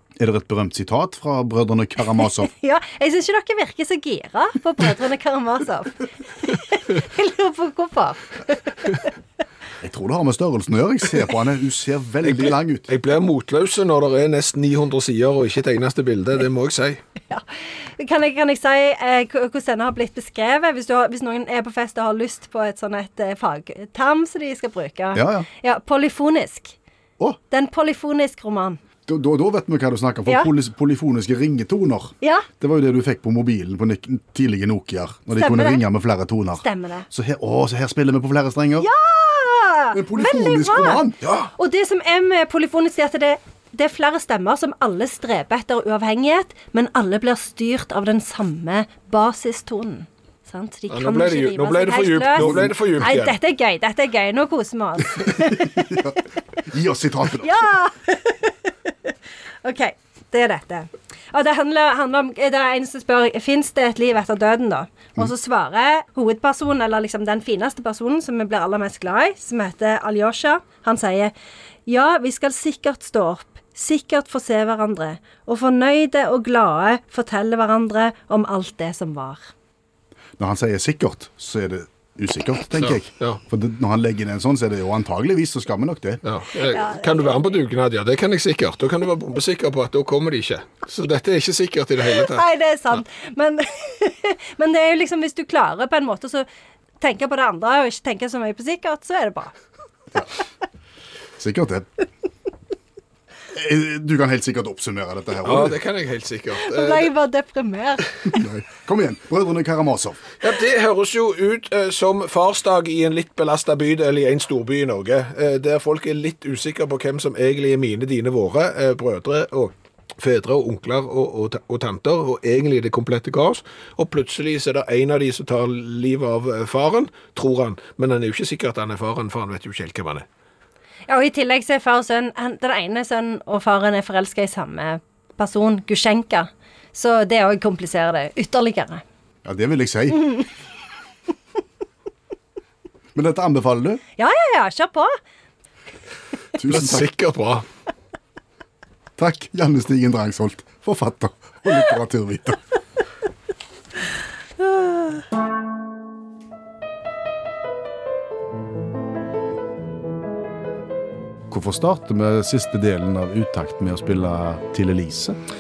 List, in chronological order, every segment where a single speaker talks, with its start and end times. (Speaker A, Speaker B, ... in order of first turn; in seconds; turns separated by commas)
Speaker A: 0.2-2.5, Speaker B: 2.4-9.1, Speaker A: 9.8-12.9, Speaker C: 12.2-17.0, Speaker B: 18.0-26.8, Speaker A: 25.1-25.5, Speaker B: 27.5-28.8, Speaker A: 29.1-38.9, Speaker B: 32.2-32.5, Speaker B: 35.4-35.8, Speaker B: 36.6-37.1, Speaker B: 38.8-56.1, Speaker A: 39.9-41.2, Speaker C: 41.2-41.5, Speaker C: 50.9-53.4, Speaker A: 52.4-52.8, Speaker A: 55.4-57.7, Speaker B: 57.4-71.3, Speaker B: 71.9-79.5, Speaker A: 80.4-86.2, Speaker C: 82.7-83.4, Speaker C: 86.2-92.4, Speaker B: 86.6-87.5, Speaker B: 92.2-96.5, Speaker B: 97.0-99.5, Speaker A: 101.4-101.9, Speaker A: 103.5-105.8, Speaker C: 105.4-107.1, Speaker B: 106.6-108.1, Speaker A: 108.3-110.2, Speaker C: 110.4-130.3, Speaker B: 131.1-139.0, Speaker A: 139.4-140.3, Speaker A: 143.2-144.0, Speaker B: 144.2-145.1, Speaker A: 146.6-147.1, Speaker C: 146.7-147.7, Speaker A: 149.2-152.6, Speaker A: 161.5-165.4